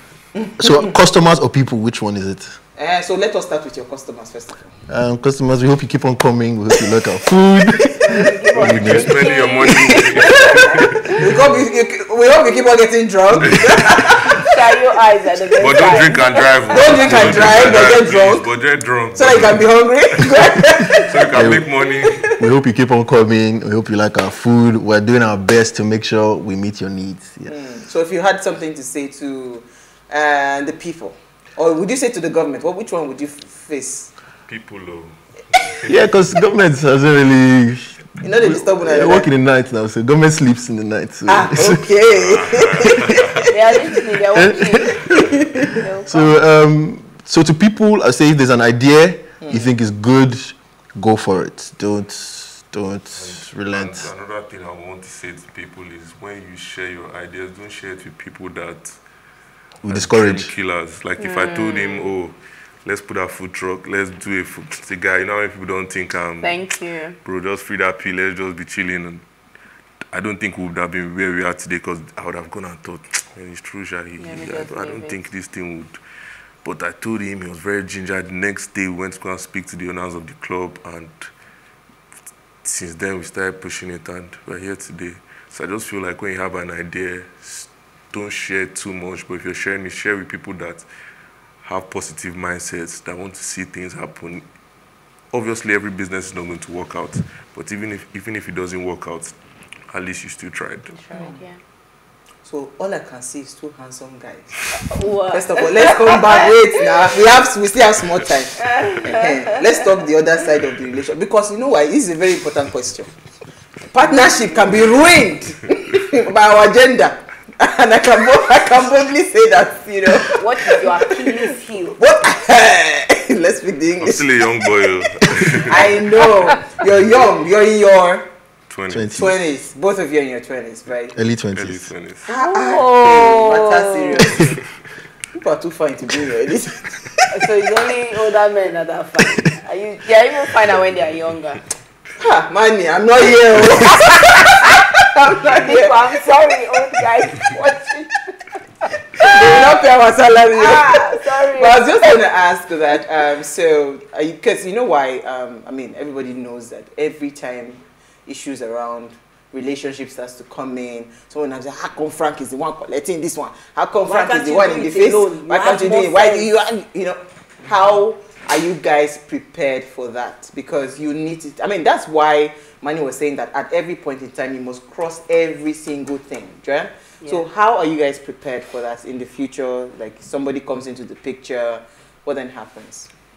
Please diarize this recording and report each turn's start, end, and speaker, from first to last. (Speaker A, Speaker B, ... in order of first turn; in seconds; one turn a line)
Speaker A: 0.3-0.9
Speaker B: 0.6-2.6
Speaker A: 2.8-4.8
Speaker B: 4.9-9.3
Speaker C: 8.0-11.2
Speaker D: 8.5-11.0
Speaker A: 9.8-14.5
Speaker D: 13.3-14.4
Speaker C: 14.3-17.1
Speaker D: 15.6-22.3
Speaker A: 15.8-16.1
Speaker A: 16.7-18.5
Speaker B: 17.2-17.6
Speaker A: 19.1-21.3
Speaker B: 21.3-21.7
Speaker A: 22.0-22.4
Speaker B: 22.4-27.5
Speaker A: 27.5-34.1
Speaker D: 34.5-36.1
Speaker B: 35.9-41.9
Speaker A: 38.2-39.3
Speaker A: 41.3-43.5
Speaker D: 42.1-43.4
Speaker B: 42.5-42.9
Speaker C: 43.5-45.1
Speaker B: 44.3-54.1
Speaker A: 45.0-45.8
Speaker C: 45.7-46.4
Speaker A: 49.4-49.7
Speaker D: 53.1-59.0
Speaker B: 59.8-60.5
Speaker D: 59.9-66.7
Speaker C: 61.2-62.1
Speaker C: 66.4-67.2
Speaker D: 67.2-69.2
Speaker D: 70.1-76.0
Speaker C: 74.2-75.2
Speaker D: 76.6-81.3
Speaker D: 82.6-90.8
Speaker D: 91.6-94.4
Speaker D: 95.3-99.3
Speaker D: 99.9-100.9
Speaker C: 100.9-101.6
Speaker A: 101.1-101.4
Speaker A: 102.4-113.1
Speaker C: 104.7-106.6
Speaker C: 108.6-109.5
Speaker A: 113.9-128.3
Speaker C: 114.1-114.6
Speaker C: 120.3-122.0
Speaker D: 124.0-126.0
Speaker D: 128.7-129.3
Speaker B: 128.9-129.3
Speaker A: 129.1-131.2
Speaker B: 131.1-131.9
Speaker D: 131.5-132.3
Speaker A: 132.2-134.6
Speaker C: 132.4-134.5
Speaker A: 135.4-137.3
Speaker C: 137.3-141.7
Speaker A: 142.2-145.9
Speaker C: 145.4-149.8
Speaker A: 149.2-183.1
Speaker C: 150.4-152.2
Speaker C: 164.0-166.5
Speaker C: 177.2-177.4